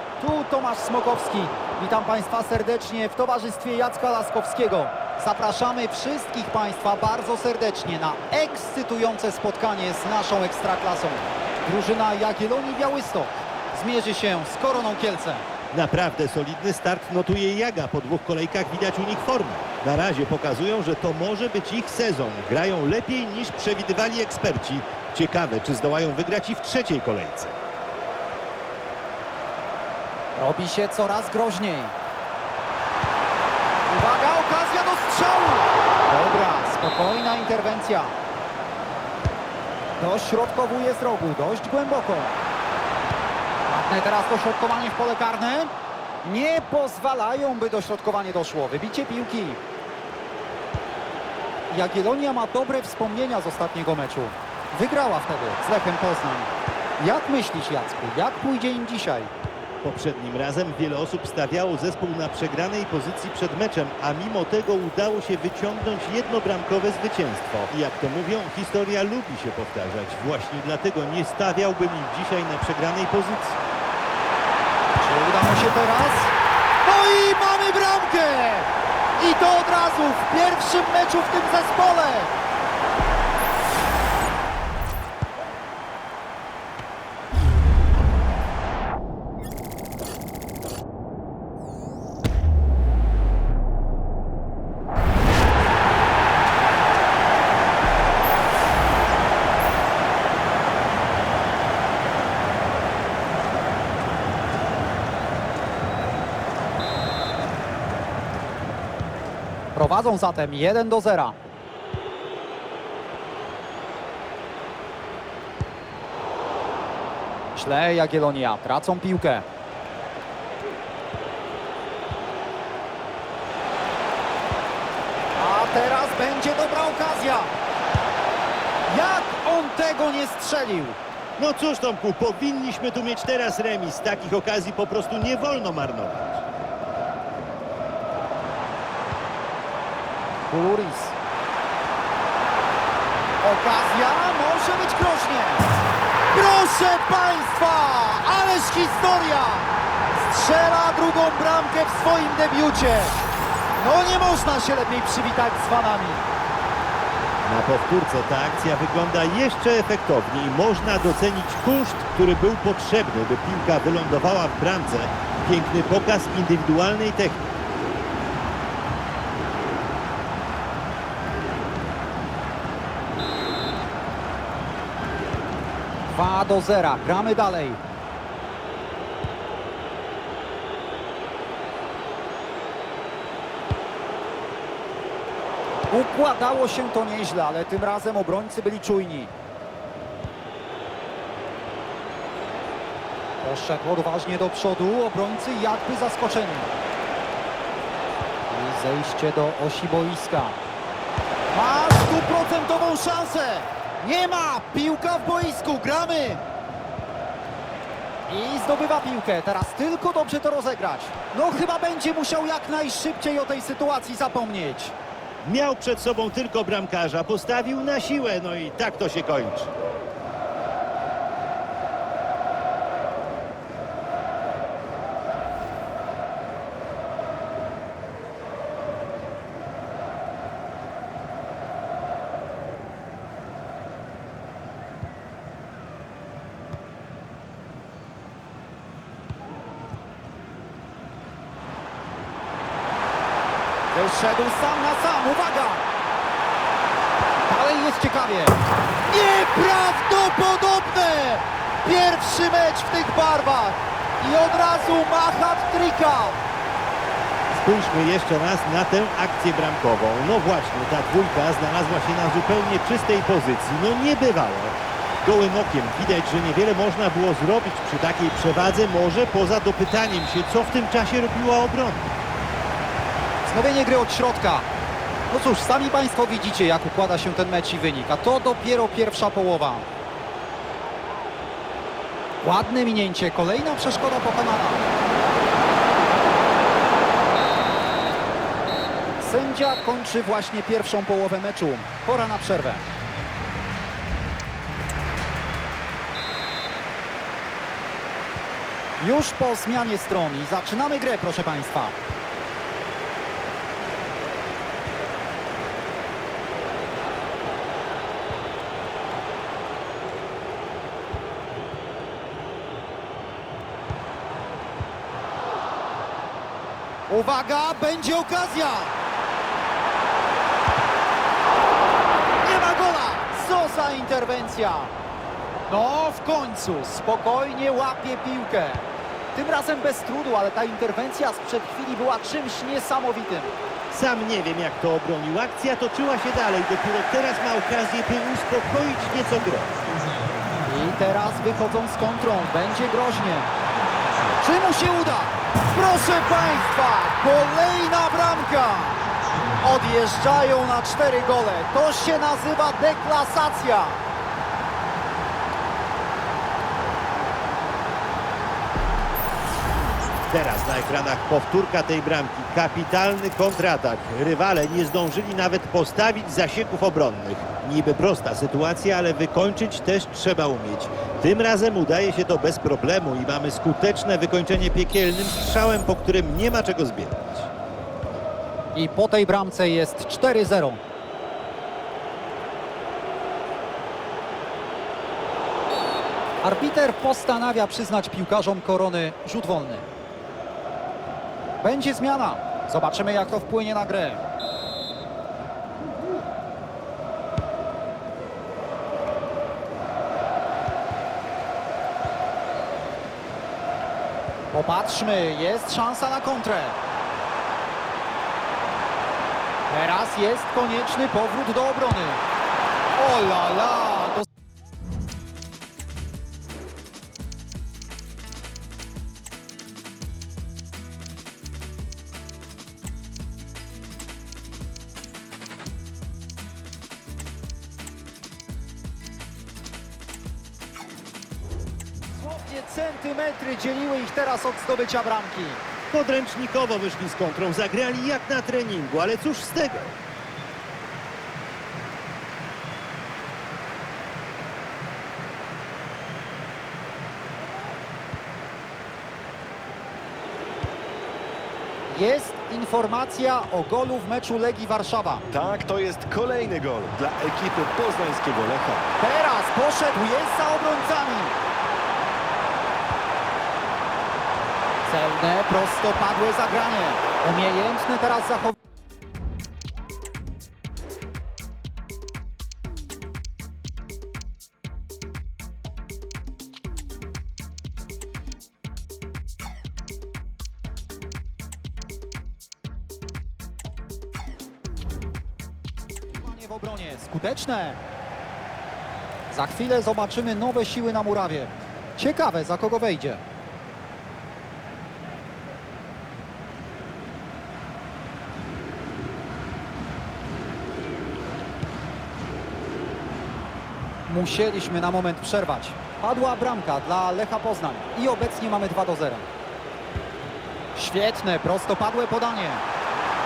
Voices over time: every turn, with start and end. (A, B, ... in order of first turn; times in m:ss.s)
0:00.2-0:15.5 A
0:15.7-0:27.6 B
0:30.4-0:32.0 A
0:33.9-0:38.2 A
0:40.0-0:42.4 A
0:43.7-0:45.7 A
0:46.2-0:49.6 A
0:51.7-0:59.3 A
0:59.8-1:13.6 B
1:15.0-1:22.3 A
1:49.7-1:51.4 A
1:57.6-1:59.4 A
2:05.4-2:07.5 A
2:08.9-2:11.0 A
2:11.4-2:16.4 B
2:20.4-2:21.2 A
2:23.4-2:25.7 A
2:26.3-2:33.2 A
2:33.8-2:36.3 A
2:37.4-2:47.5 B
2:56.1-2:57.8 A
3:05.9-3:09.3 A
3:13.4-3:16.7 A
3:18.5-3:20.6 A
3:21.5-3:26.4 A
3:28.3-3:35.0 A
3:35.4-3:39.7 B
4:03.9-4:05.8 A
4:07.5-4:16.4 A
4:17.5-4:32.1 B
4:33.5-4:34.7 A
4:35.3-4:39.9 A
4:42.4-4:44.9 A
4:49.2-4:52.8 A
4:59.0-5:02.0 A
5:17.1-5:19.0 A
5:22.4-5:24.9 A
5:25.7-5:33.5 A
5:33.9-5:39.8 B
5:40.7-5:43.5 A
5:44.4-5:49.1 A
5:49.6-5:54.0 A
6:00.3-6:17.5 B
6:18.7-6:20.8 A
6:26.4-6:29.9 A
6:31.6-6:34.2 A
6:44.5-6:46.8 A
6:49.7-6:52.2 A
6:53.0-6:54.3 A
7:12.2-7:15.6 A
7:15.9-7:20.0 B
7:31.9-7:35.2 A
7:35.3-7:38.9 C
7:39.0-7:41.4 A
7:44.9-7:48.6 A
8:06.1-8:07.8 A
8:09.3-8:13.2 A
8:24.1-8:29.3 A
8:30.8-8:32.6 A